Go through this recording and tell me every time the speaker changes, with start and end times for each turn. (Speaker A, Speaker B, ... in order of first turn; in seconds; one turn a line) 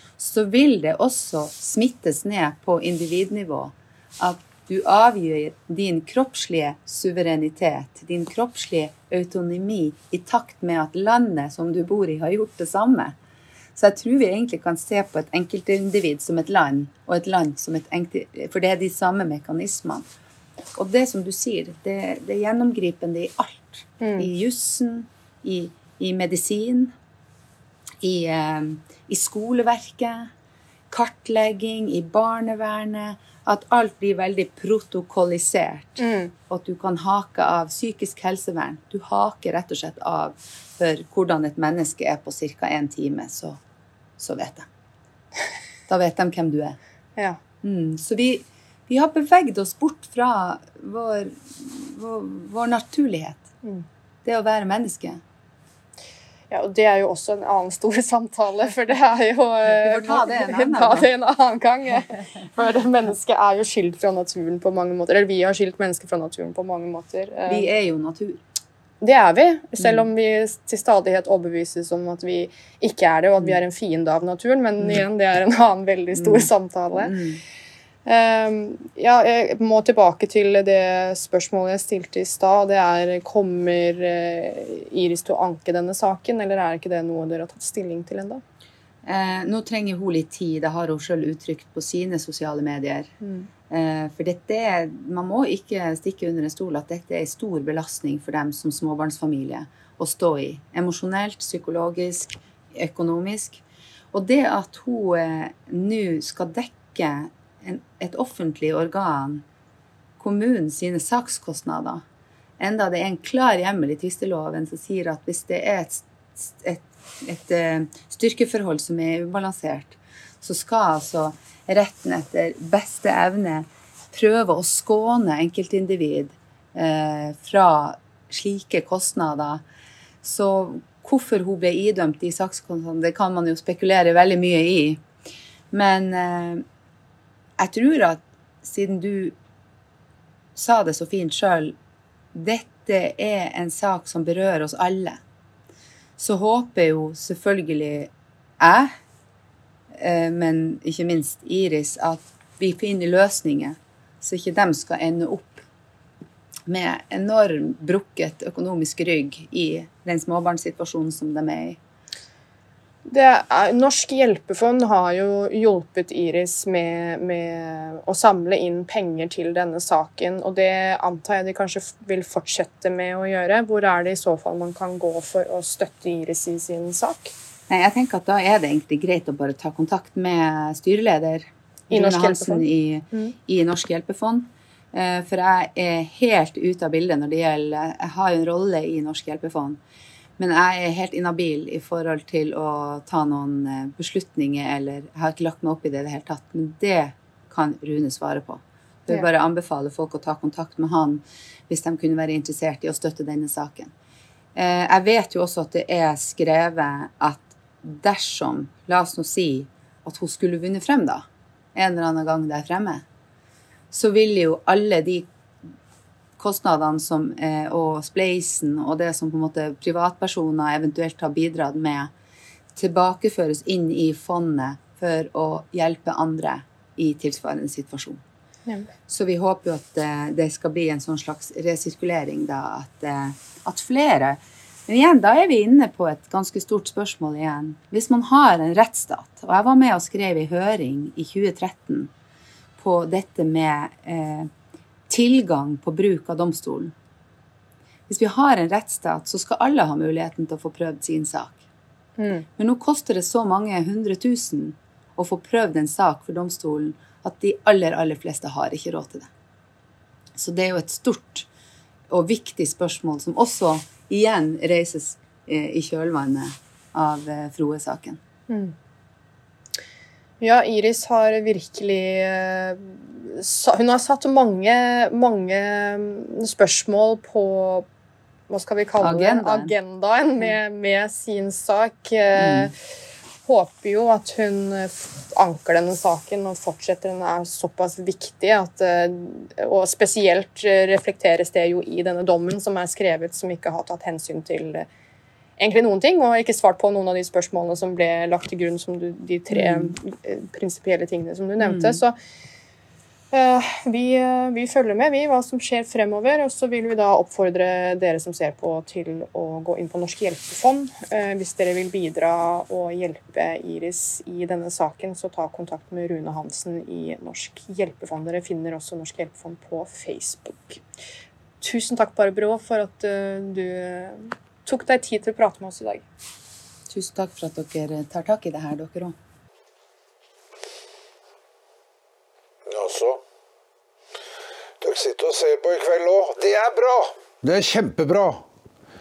Speaker A: 0.2-13.2
Speaker A: 13.8-20.1
Speaker A: 20.8-26.9
Speaker B: 24.0-24.3
Speaker A: 28.0-30.3
Speaker A: 30.9-43.6
Speaker B: 36.0-36.3
Speaker A: 44.2-44.7
Speaker A: 45.9-46.8
Speaker A: 47.6-53.5
Speaker A: 54.2-55.2
Speaker B: 56.5-67.7
Speaker A: 59.7-61.1
Speaker A: 67.5-68.4
Speaker B: 69.0-77.2
Speaker A: 69.8-70.1
Speaker A: 76.2-77.4
Speaker B: 78.0-88.4
Speaker A: 89.0-93.1
Speaker B: 93.2-93.5
Speaker A: 93.7-103.6
Speaker A: 104.1-109.4
Speaker A: 110.2-112.0
Speaker A: 112.6-129.6
Speaker A: 130.2-135.0
Speaker A: 135.7-136.6
Speaker A: 137.6-139.4
Speaker A: 140.6-141.8
Speaker A: 142.3-145.2
Speaker A: 146.2-148.9
Speaker A: 149.9-155.7
Speaker A: 156.7-161.8
Speaker B: 163.1-177.3
Speaker A: 177.7-189.8
Speaker B: 181.9-183.3
Speaker A: 190.4-203.9
Speaker A: 204.6-213.1
Speaker A: 213.9-215.3
Speaker A: 216.4-222.1
Speaker A: 222.8-228.2
Speaker A: 229.1-242.1
Speaker A: 242.8-244.5
Speaker A: 245.1-246.9
Speaker A: 248.1-251.6
Speaker B: 252.2-252.5
Speaker A: 252.6-259.3
Speaker A: 260.4-261.5
Speaker A: 262.1-268.2
Speaker B: 268.5-268.8
Speaker B: 270.4-277.9
Speaker B: 278.5-282.8
Speaker A: 279.0-279.7
Speaker A: 282.4-282.7
Speaker B: 283.4-294.9
Speaker B: 295.6-302.2
Speaker A: 299.5-299.9
Speaker A: 301.6-302.0
Speaker B: 303.3-320.8
Speaker B: 321.6-326.1
Speaker A: 326.9-329.2
Speaker C: 332.7-333.2
Speaker C: 334.8-338.4